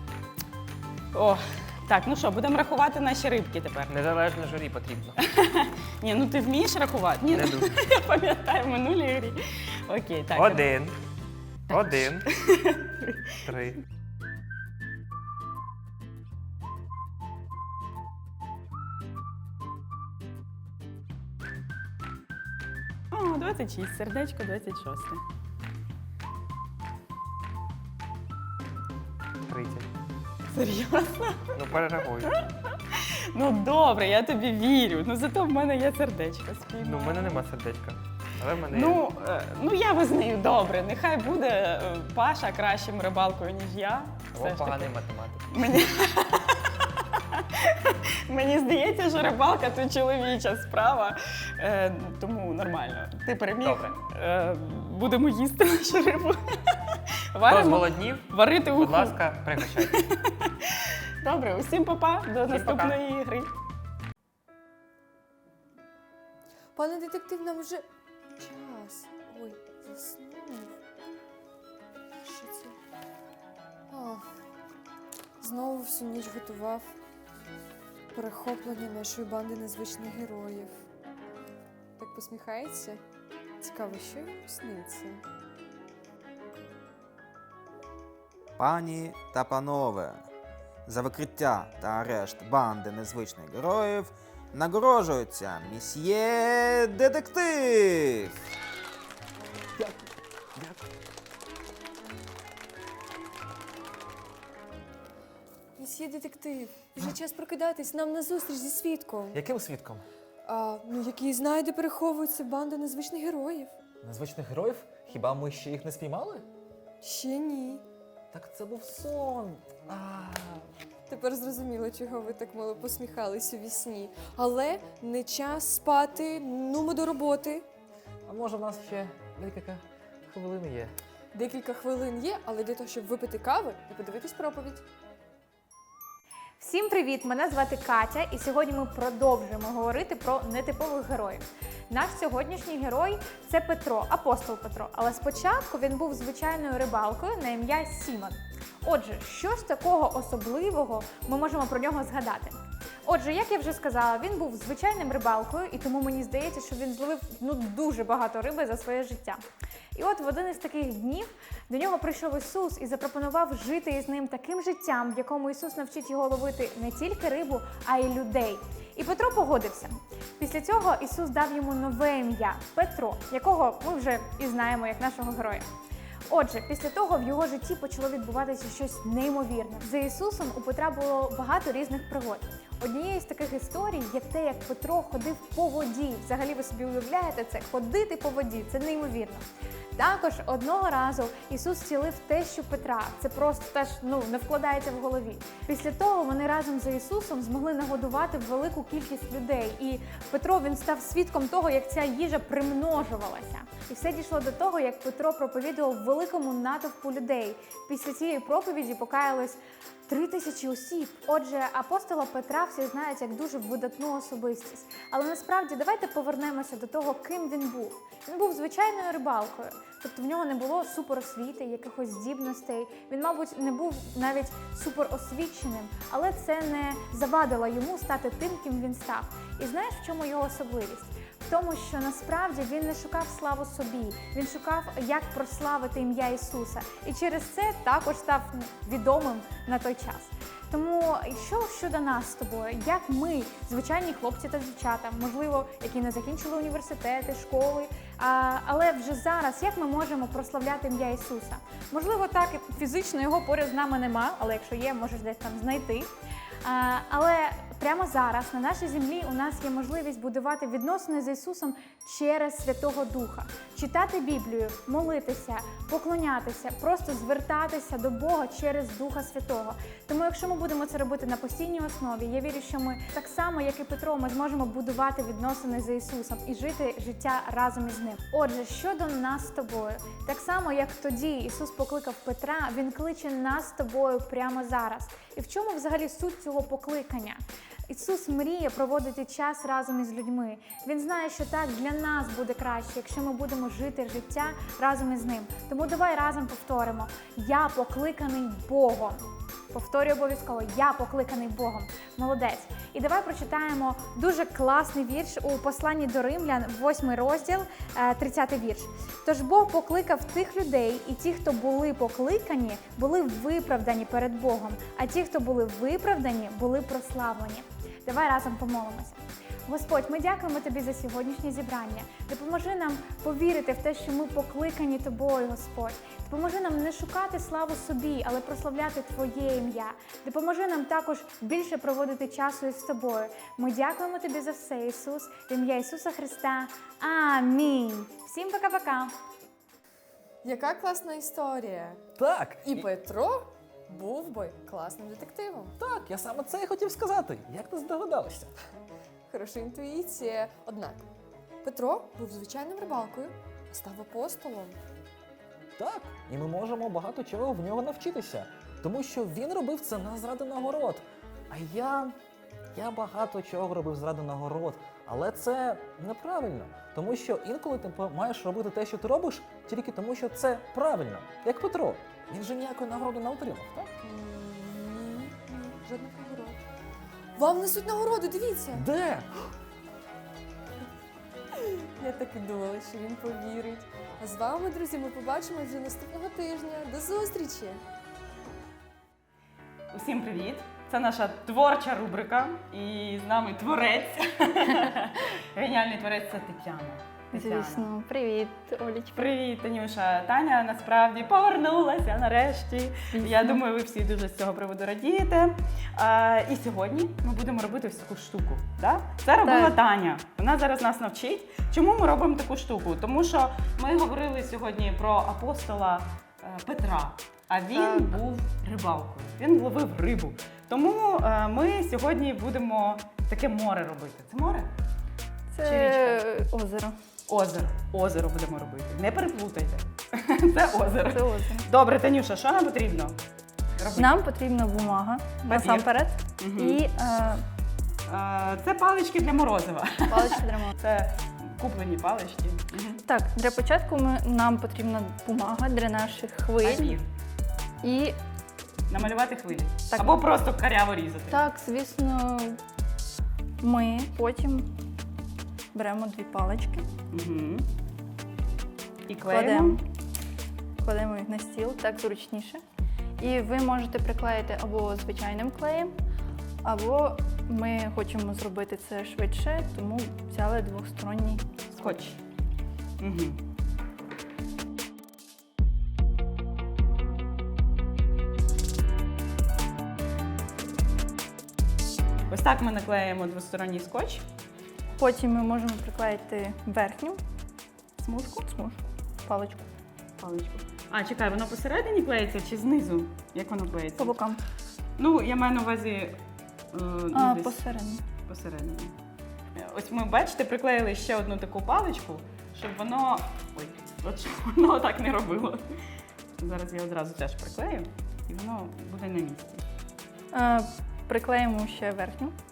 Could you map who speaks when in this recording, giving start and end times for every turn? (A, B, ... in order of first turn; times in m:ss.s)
0:01.1-0:04.0 A
0:03.9-0:05.2 B
0:05.3-0:10.7 A
0:07.3-0:07.7 B
0:10.3-0:11.0 B
0:11.7-0:12.3 B
0:11.7-0:13.2 A
0:13.4-0:13.8 B
0:23.1-0:25.2 A
0:29.4-0:29.9 B
0:30.5-0:31.5 A
0:31.6-0:32.3 B
0:33.0-0:37.4 A
0:36.8-0:39.0 B
0:38.7-0:44.9 A
0:44.3-0:45.8 B
0:45.5-1:00.5 A
0:53.6-0:54.0 B
0:57.4-1:00.0 B
1:01.2-1:03.5 A
1:02.4-1:03.0 B
1:06.7-1:07.8 C
1:08.4-1:10.7 C
1:12.2-1:12.8 C
1:13.9-1:14.2 C
1:15.4-1:17.0 C
1:18.1-1:20.7 C
1:22.0-1:23.0 C
1:23.6-1:25.2 C
1:28.6-1:30.2 D
1:30.9-1:38.3 D
1:40.6-1:40.9 E
1:45.8-1:49.4 C
1:49.3-1:50.0 E
1:50.4-1:53.7 C
1:54.0-1:56.4 E
1:57.0-1:57.8 C
1:58.3-2:00.7 E
2:01.1-2:07.6 C
2:08.3-2:11.0 E
2:11.3-2:14.8 C
2:16.6-2:39.4 F
2:39.9-2:55.7 F
2:56.3-3:09.4 F
3:10.0-4:16.1 F
4:16.6-5:39.2 F
5:40.4-5:42.0 C
5:42.2-5:42.8 E
5:42.6-5:45.7 C
5:45.8-5:48.5 E
5:49.3-5:51.1 C
5:51.6-5:54.8 C
5:55.8-6:02.2 E
6:02.7-6:13.9 E
6:14.0-6:16.6 C
6:17.4-6:18.9 C
6:18.7-6:19.5 E
6:21.5-6:27.8 C
6:29.9-6:37.9 A
6:37.3-6:39.3 G
6:39.2-7:04.7 A
6:43.1-6:43.6 G
6:49.4-6:49.8 G
6:57.7-6:58.1 G
7:05.5-7:06.9 G
7:05.6-7:06.2 A
7:07.3-7:13.2 A
7:11.1-7:11.7 G
7:13.8-7:14.2 A
7:14.0-7:17.4 G
7:15.4-7:16.8 A
7:18.1-7:23.0 A
7:20.1-7:20.7 G
7:23.0-7:27.0 G
7:26.6-7:27.0 A
7:27.8-7:28.2 G
7:28.9-7:31.4 A
7:29.9-7:30.2 G
7:31.3-7:32.6 G
7:33.6-7:34.7 G
7:35.7-7:36.9 G
7:37.1-7:37.7 A
7:39.1-7:39.8 A
7:39.2-7:39.8 G
7:40.8-7:42.6 G
7:43.2-7:45.9 G
7:46.6-7:51.4 G
7:51.7-7:52.2 A
7:53.0-7:53.4 A
8:02.3-8:04.2 A
8:05.0-8:07.2 G
8:08.0-8:08.5 A
8:08.4-8:09.7 G
8:10.2-8:14.2 A
8:14.0-8:14.4 G
8:15.0-8:16.2 A
8:16.7-8:17.6 A
8:17.1-8:18.0 G
8:18.3-8:18.9 A
8:19.6-8:25.6 A
8:26.4-8:29.6 A
8:30.3-8:32.4 G